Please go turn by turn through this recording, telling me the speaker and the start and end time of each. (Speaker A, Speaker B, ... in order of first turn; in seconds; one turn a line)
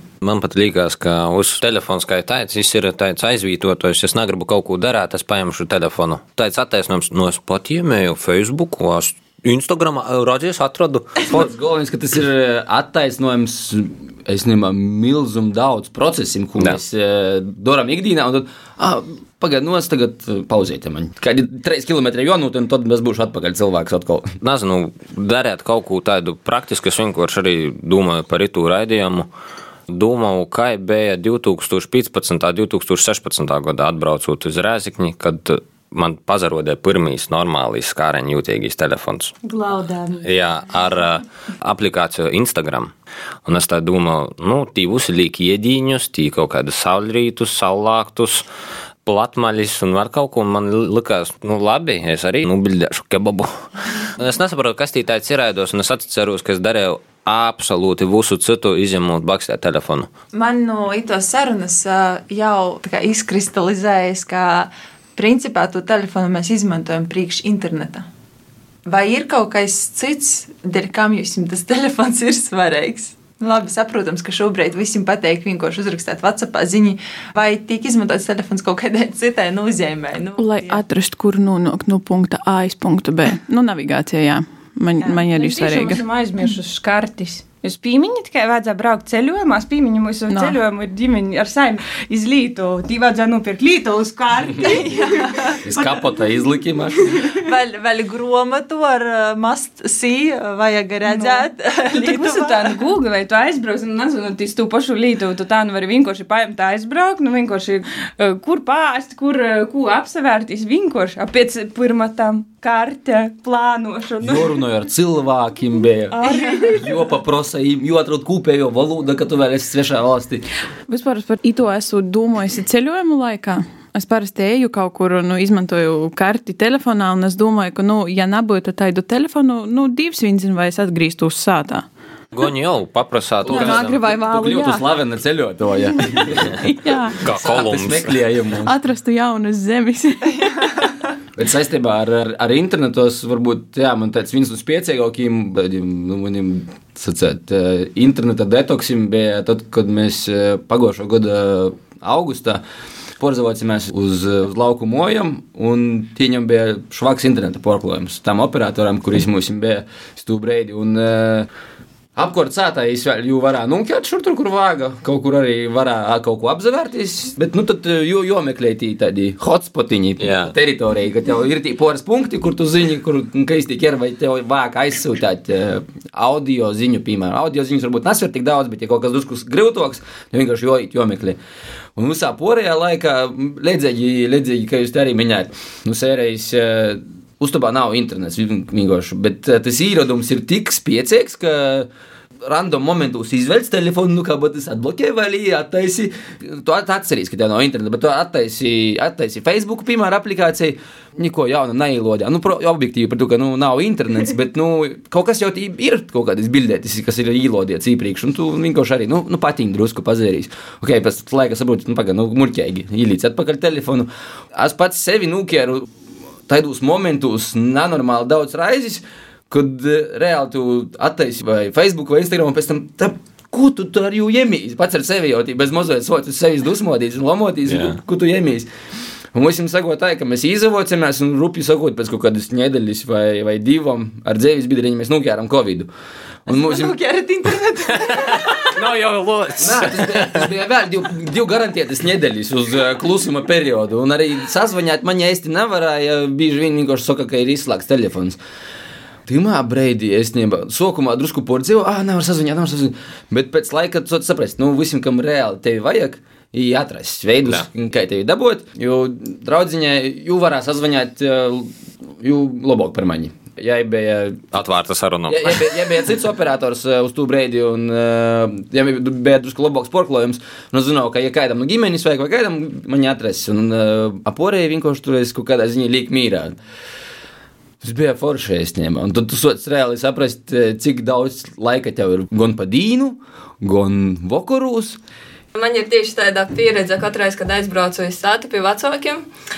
Speaker A: 0.2-11.5
Speaker B: 11.2-24.3
Speaker A: 24.4-29.3
Speaker A: 29.9-39.4
Speaker C: 39.5-40.2
Speaker A: 40.2-42.9
Speaker A: 43.5-48.5
Speaker A: 49.0-60.1
Speaker D: 60.3-68.1
Speaker D: 68.9-80.8
Speaker E: 80.4-86.0
Speaker C: 85.0-96.0
Speaker E: 90.3-90.6
Speaker D: 94.6-95.6
Speaker B: 95.6-97.2
Speaker D: 97.4-102.8
Speaker C: 101.1-114.6
Speaker B: 114.2-120.5
Speaker C: 116.1-116.9
Speaker E: 120.9-131.9
Speaker A: 132.3-134.0
Speaker B: 133.4-136.6
Speaker E: 133.5-134.8
Speaker E: 135.9-137.2
Speaker A: 137.2-138.2
Speaker B: 137.2-138.7
Speaker E: 138.6-140.7
Speaker B: 141.4-152.6
Speaker B: 153.2-161.5
Speaker B: 162.2-181.4
Speaker A: 170.2-170.5
Speaker B: 182.0-191.9
Speaker B: 192.4-215.9
Speaker B: 216.5-228.7
Speaker A: 227.7-228.0
Speaker B: 229.3-235.9
Speaker B: 236.5-236.9
Speaker D: 236.5-238.7
Speaker A: 238.1-240.5
Speaker B: 239.6-248.4
Speaker B: 249.3-264.5
Speaker A: 264.5-265.7
Speaker B: 265.3-276.6
Speaker B: 277.8-285.0
Speaker F: 285.5-289.3